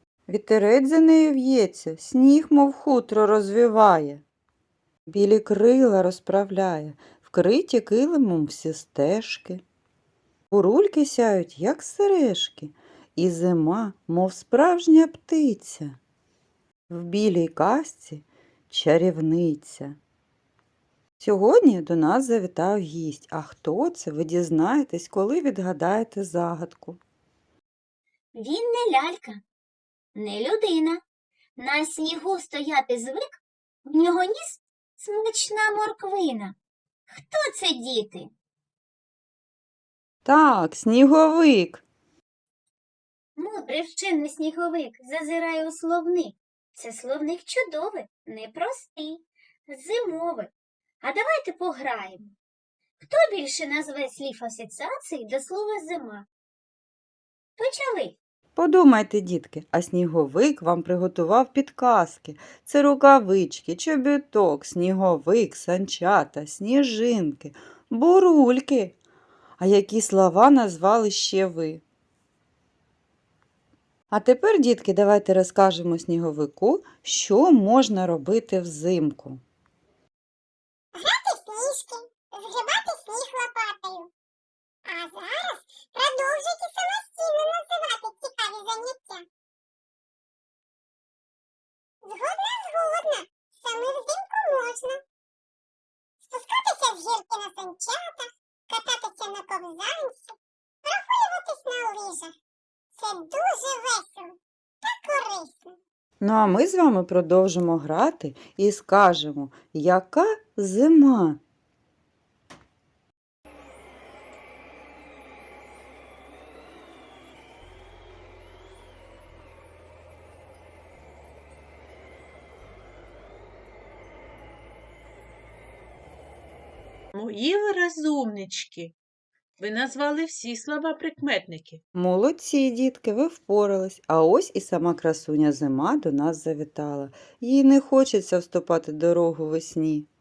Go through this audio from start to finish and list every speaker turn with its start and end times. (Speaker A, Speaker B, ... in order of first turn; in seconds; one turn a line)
Speaker A: 0.3-4.2
Speaker A: 5.1-9.6
Speaker A: 10.5-16.0
Speaker A: 16.9-20.0
Speaker A: 21.2-27.0
Speaker B: 28.4-29.4
Speaker B: 30.1-31.0
Speaker B: 31.6-36.6
Speaker B: 37.1-38.3
Speaker A: 40.2-41.8
Speaker B: 43.4-50.5
Speaker B: 51.0-52.3
Speaker B: 53.0-56.3
Speaker B: 57.6-58.2
Speaker A: 58.6-69.0
Speaker A: 69.6-71.8
Speaker A: 74.1-79.4
Speaker C: 81.0-84.1
Speaker C: 84.9-89.3
Speaker C: 92.0-95.0
Speaker C: 96.3-102.3
Speaker C: 102.9-105.7
Speaker A: 106.2-111.4
Speaker D: 127.1-128.9
Speaker D: 129.6-131.8
Speaker A: 131.9-140.1